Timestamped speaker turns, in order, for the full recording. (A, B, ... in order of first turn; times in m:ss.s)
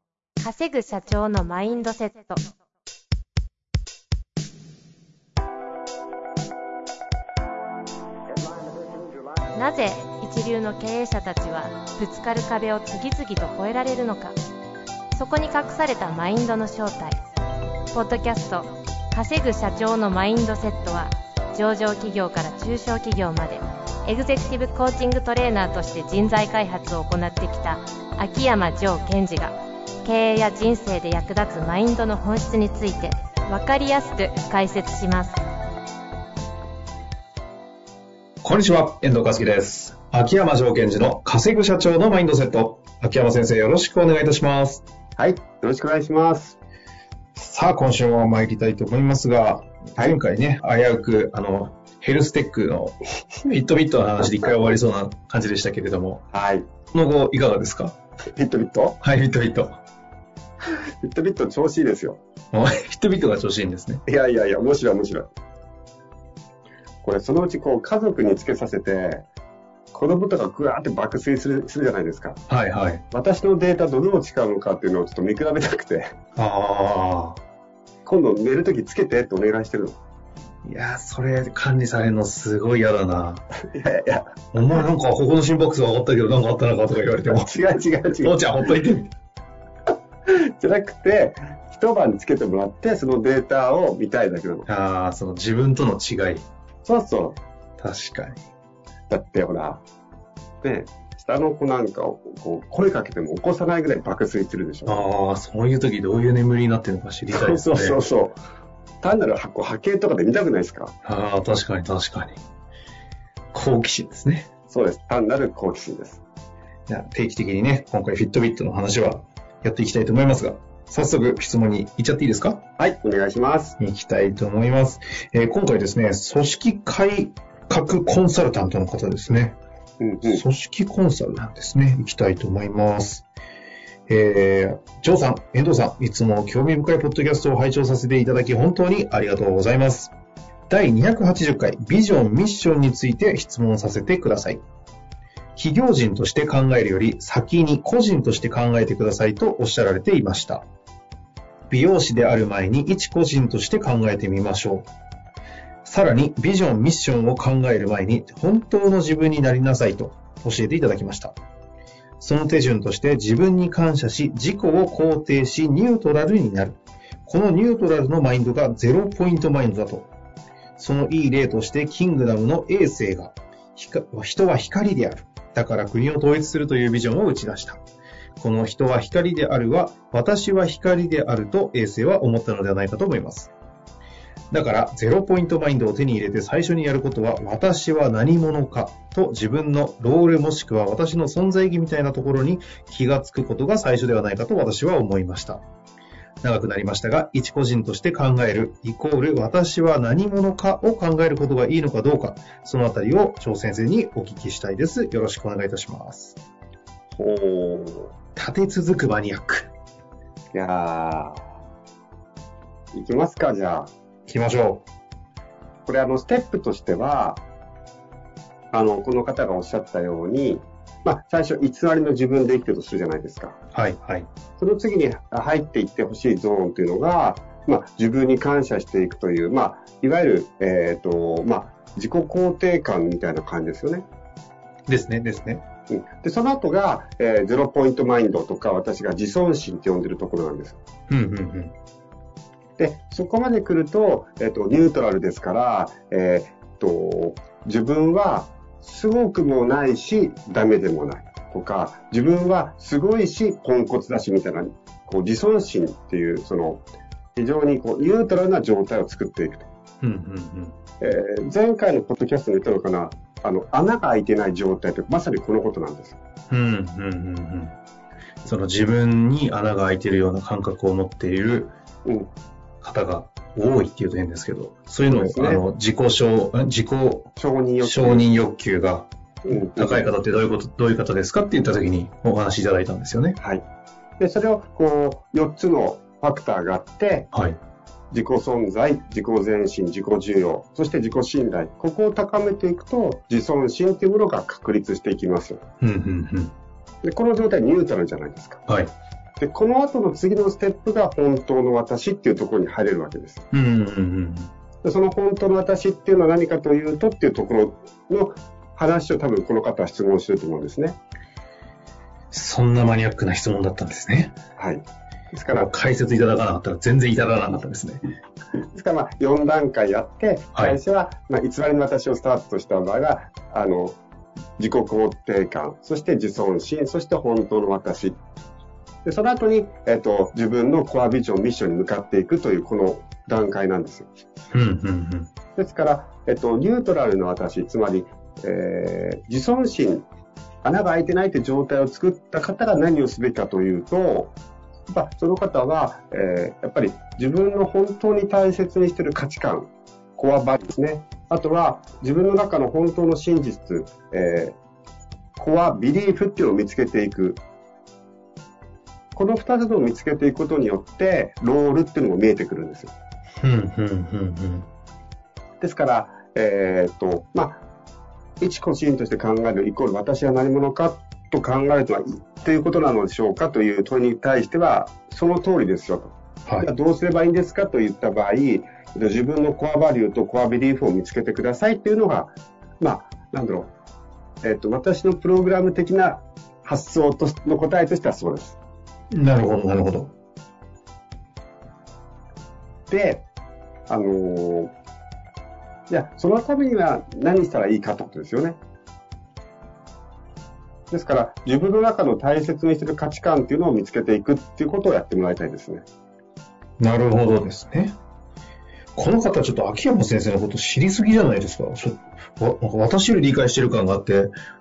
0:00.4-0:02.4 A
0:09.5-0:14.4 A
0:15.1-0:17.2 A
0:17.9-0:35.4 A
0:38.4-0:44.8 B
0:45.2-0:46.6 C
0:47.4-0:56.3 B
0:56.3-0:56.7 C
0:56.9-0:58.0 B
0:58.4-0:59.0 C
0:59.0-0:59.8 B
1:01.0-1:02.2 C
1:02.5-1:04.0 B
1:04.1-1:05.3 C
1:07.0-1:09.2 C
1:09.9-1:12.4 C
1:12.5-1:13.0 B
1:13.1-1:16.1 C
1:16.4-1:17.4 B
1:18.0-1:20.0 C
1:20.6-1:23.4 B
1:23.7-1:24.5 C
1:24.5-1:27.5 B
1:27.2-1:28.4 C
1:28.2-1:29.1 B
1:30.3-1:34.7 C
1:34.7-1:36.5 B
1:36.8-1:37.4 C
1:37.8-1:38.4 B
1:39.1-1:39.8 C
1:40.6-1:45.0 C
1:44.9-1:48.0 B
1:47.3-1:48.4 C
1:49.0-1:50.9 C
1:51.0-1:52.4 B
1:53.5-1:54.5 B
1:54.7-1:56.2 C
1:56.9-2:02.6 B
2:02.8-2:03.8 C
2:03.8-2:09.6 B
2:10.0-2:10.4 C
2:10.2-2:13.3 B
2:14.1-2:20.1 B
2:20.7-2:24.6 B
2:25.6-2:30.7 B
2:31.7-2:34.9 B
2:35.8-2:41.4 B
2:42.2-2:50.1 B
2:50.8-2:57.8 B
2:58.4-3:03.5 B
3:04.5-3:15.6 B
3:16.4-3:26.4 B
3:27.2-3:28.1 C
3:28.4-3:29.7 B
3:30.5-3:31.4 C
3:32.9-3:33.9 C
3:34.3-3:34.8 B
3:35.9-3:37.4 C
3:38.7-3:43.6 C
3:43.7-3:44.3 B
3:44.6-3:54.0 C
3:54.9-3:55.6 B
3:55.9-4:00.8 C
4:01.1-4:01.7 B
4:02.8-4:16.8 C
4:17.4-4:19.7 C
4:20.0-4:20.8 B
4:21.0-4:26.2 C
4:26.5-4:27.8 B
4:28.4-4:31.8 B
4:32.8-4:43.4 B
4:35.1-4:35.6 C
4:37.4-4:38.3 C
4:39.5-4:40.1 C
4:43.4-4:43.6 C
4:44.2-4:47.3 C
4:47.3-4:47.6 B
4:48.1-4:55.6 C
4:55.8-4:56.5 B
4:57.0-4:58.6 C
4:59.4-5:03.4 C
5:03.5-5:04.5 B
5:04.8-5:11.0 C
5:12.3-5:14.4 B
5:14.6-5:15.7 C
5:15.5-5:18.1 B
5:18.7-5:24.0 C
5:24.6-5:28.2 C
5:29.0-5:34.1 C
5:34.5-5:35.3 B
5:35.6-5:40.0 C
5:40.6-5:44.3 C
5:44.9-5:54.5 C
5:55.4-5:57.4 C
5:59.2-6:02.9 C
6:03.4-6:04.7 B
6:05.6-6:07.6 C
6:08.4-6:23.7 C
6:24.4-6:28.6 C
6:29.1-6:30.1 B
6:32.9-6:33.2 C
6:33.9-6:34.7 C
6:35.9-6:38.6 C
6:40.9-6:45.8 C
6:46.8-6:48.0 B
6:49.0-6:54.3 B